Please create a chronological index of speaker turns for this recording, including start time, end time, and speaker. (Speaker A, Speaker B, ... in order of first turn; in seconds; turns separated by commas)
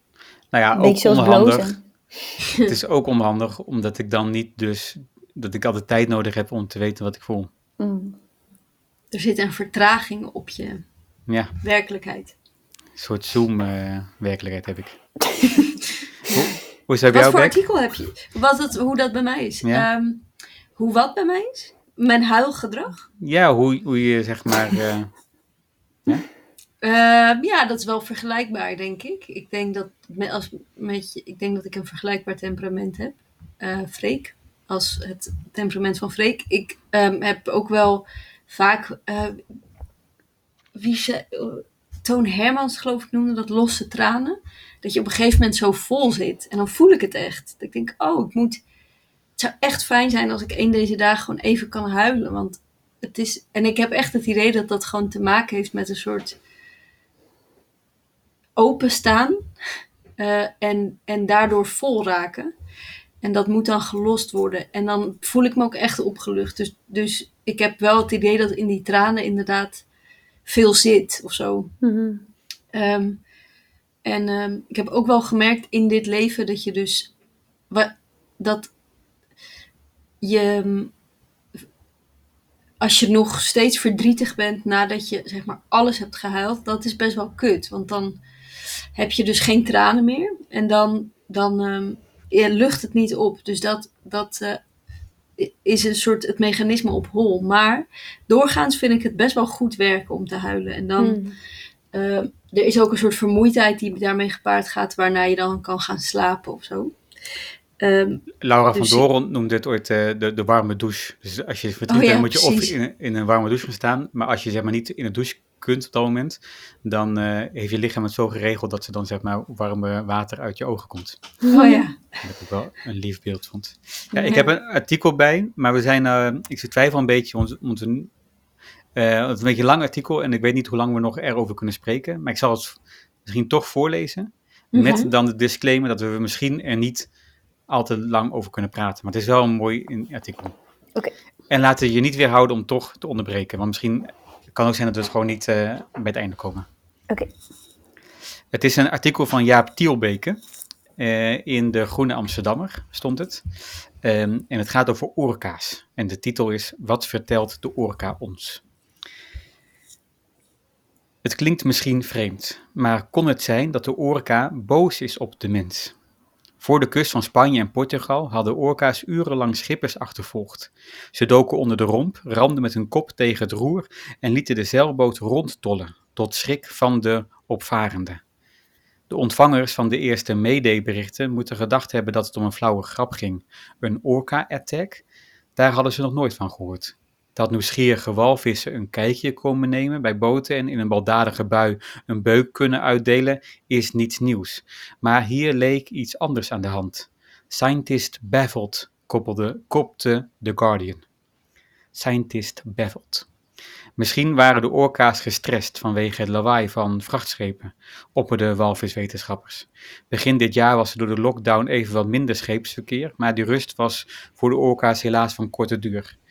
Speaker A: 0.5-1.8, Speaker B: 0.8-1.8, Speaker A: 2.6-7.5, Speaker B: 7.8-8.2, Speaker C: 9.1-10.8, Speaker A: 11.3-11.5, Speaker C: 11.6-12.3, Speaker A: 12.9-15.0, Speaker B: 15.3-15.7, Speaker A: 16.3-17.6, Speaker C: 17.1-20.2, Speaker C: 20.8-23.0, Speaker A: 23.2-25.1, Speaker C: 26.8-39.4, Speaker C: 40.7-48.6, Speaker C: 49.4-56.4, Speaker C: 58.5-59.5, Speaker C: 60.2-62.5, Speaker C: 63.2-69.8, Speaker C: 70.5-71.7, Speaker B: 71.8-72.2, Speaker C: 72.7-73.2, Speaker C: 74.0-77.1, Speaker C: 77.7-78.7, Speaker C: 80.2-80.9, Speaker C: 82.8-88.2, Speaker C: 88.9-94.6, Speaker C: 95.4-101.2, Speaker B: 101.0-101.3, Speaker C: 101.9-106.9, Speaker C: 107.8-109.0, Speaker A: 108.4-121.3, Speaker C: 111.9-112.7, Speaker B: 121.4-121.8, Speaker C: 121.5-122.0, Speaker A: 122.2-128.1, Speaker B: 124.1-124.4, Speaker A: 128.9-137.1, Speaker C: 134.7-135.1, Speaker A: 137.7-140.6, Speaker A: 141.5-146.7, Speaker A: 148.5-150.4, Speaker A: 151.0-153.4, Speaker A: 154.0-158.6, Speaker A: 161.2-165.9, Speaker A: 166.6-178.2, Speaker A: 179.1-185.0, Speaker A: 185.6-201.0, Speaker A: 201.9-203.3, Speaker A: 204.0-216.2